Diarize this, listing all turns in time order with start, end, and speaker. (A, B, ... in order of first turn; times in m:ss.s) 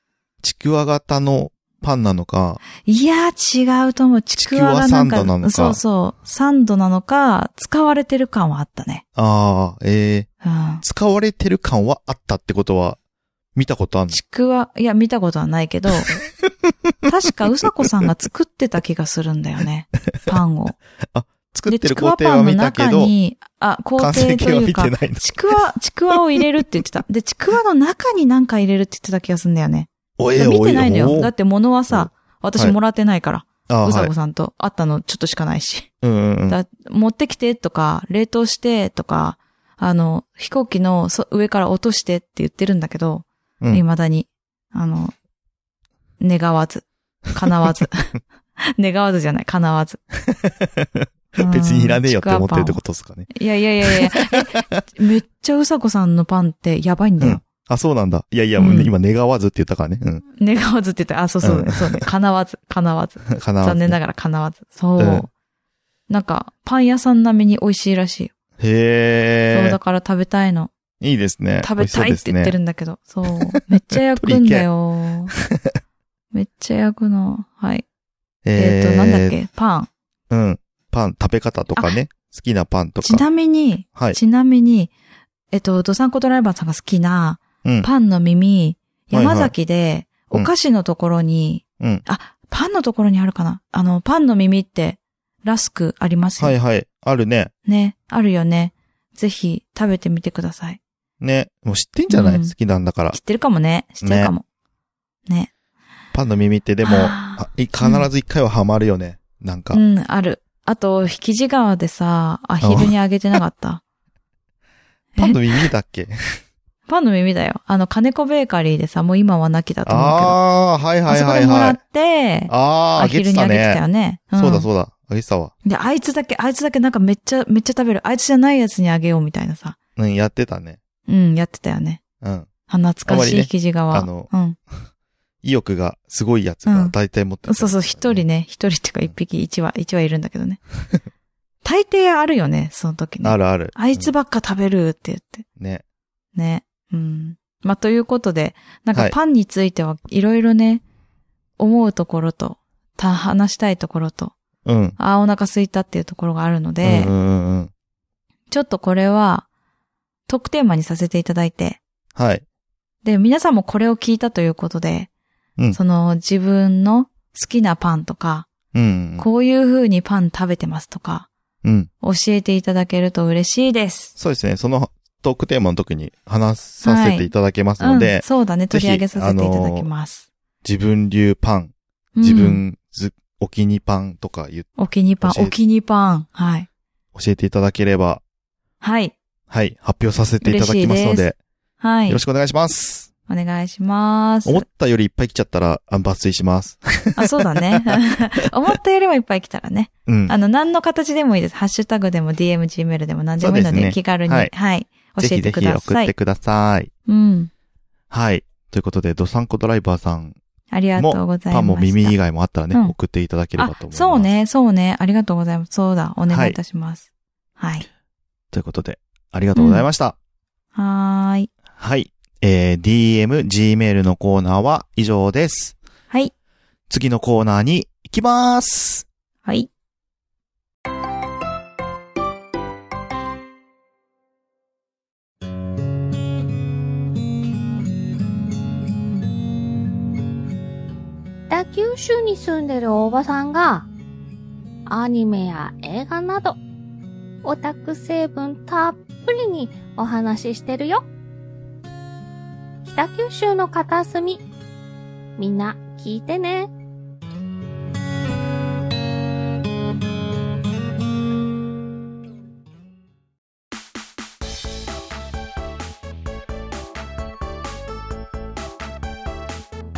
0:00.4-0:02.6 A
0:02.8-0:09.0 B
0:04.4-0:05.8 A
0:09.2-0:10.3 A
0:10.4-0:10.8 B
0:10.8-0:13.0 A
0:13.5-0:14.2 A
0:14.1-0:16.2 B
0:17.0-0:20.8 B
0:21.1-0:23.1 A
0:21.7-0:35.9 B
0:24.0-0:26.8 A
0:30.2-0:31.3 A
0:31.9-0:32.7 A
0:33.7-0:34.1 A
0:36.0-0:36.6 A
0:36.5-0:45.1 B
0:46.2-0:48.1 B
0:48.7-0:50.0 B
0:50.3-0:53.3 A
0:51.4-0:57.4 B
0:53.8-0:54.8 A
0:57.2-1:00.2 A
0:58.6-0:58.9 B
1:00.4-1:05.3 B
1:01.4-1:02.0 A
1:03.3-1:04.0 A
1:05.0-1:05.3 A
1:06.1-1:08.3 B
1:08.6-1:09.8 A
1:09.5-1:10.7 B
1:11.0-1:12.6 A
1:11.6-1:15.3 B
1:13.5-1:14.7 A
1:15.3-1:15.8 A
1:16.3-1:17.8 B
1:18.4-1:19.3 A
1:18.6-1:19.9 B
1:20.3-1:23.2 A
1:23.0-1:24.9 B
1:25.5-1:36.5 B
1:29.1-1:29.5 A
1:36.4-1:37.5 A
1:37.6-1:40.8 B
1:41.2-1:43.2 A
1:42.1-1:42.5 B
1:43.1-1:44.4 B
1:44.0-1:44.3 A
1:46.1-1:49.8 A
1:46.8-1:48.1 B
1:49.7-1:53.8 B
1:52.6-1:52.9 A
1:55.2-1:56.4 A
1:56.9-2:00.4 B
1:59.8-2:01.8 A
2:01.1-2:04.7 B
2:02.5-2:03.8 A
2:04.3-2:05.5 A
2:05.6-2:09.8 B
2:10.0-2:10.8 A
2:11.1-2:12.0 B
2:12.2-2:12.5 A
2:12.7-2:14.6 B
2:13.1-2:14.3 A
2:15.4-2:18.2 A
2:16.6-2:16.9 B
2:17.5-2:20.6 B
2:21.6-2:25.4 B
2:23.2-2:24.1 A
2:26.3-2:30.8 B
2:31.6-2:34.3 B
2:34.6-2:35.0 A
2:35.0-2:37.1 B
2:36.8-2:37.7 A
2:38.5-2:39.4 B
2:40.3-2:41.8 B
2:42.1-2:42.4 A
2:43.0-2:45.1 B
2:45.7-2:48.5 B
2:48.7-2:49.2 A
2:49.2-2:51.3 B
2:51.6-2:51.9 A
2:52.0-2:54.1 B
2:54.2-2:59.9 A
2:56.8-2:57.3 B
2:57.8-3:00.2 B
3:00.6-3:05.6 A
3:02.2-3:02.6 B
3:04.8-3:06.7 B
3:07.1-3:08.2 A
3:08.8-3:09.1 B
3:09.5-3:11.3 A
3:10.4-3:11.3 B
3:11.8-3:12.2 B
3:12.1-3:13.1 A
3:13.3-3:14.6 B
3:14.4-3:18.0 A
3:17.2-3:26.1 B
3:20.0-3:20.3 A
3:23.4-3:24.5 A
3:25.2-3:26.9 A
3:27.1-3:27.5 B
3:28.1-3:30.4 A
3:30.7-3:32.2 B
3:31.0-3:34.3 A
3:33.6-3:37.0 B
3:36.3-3:36.6 A
3:37.6-3:37.8 B
3:38.5-3:40.2 A
3:39.5-3:39.8 B
3:40.7-3:41.5 B
3:41.8-3:45.8 A
3:46.9-3:49.1 A
4:01.5-4:03.9 C
4:04.9-4:06.6 C
4:07.4-4:11.1 C
4:12.8-4:14.4 C
4:15.4-4:16.7 C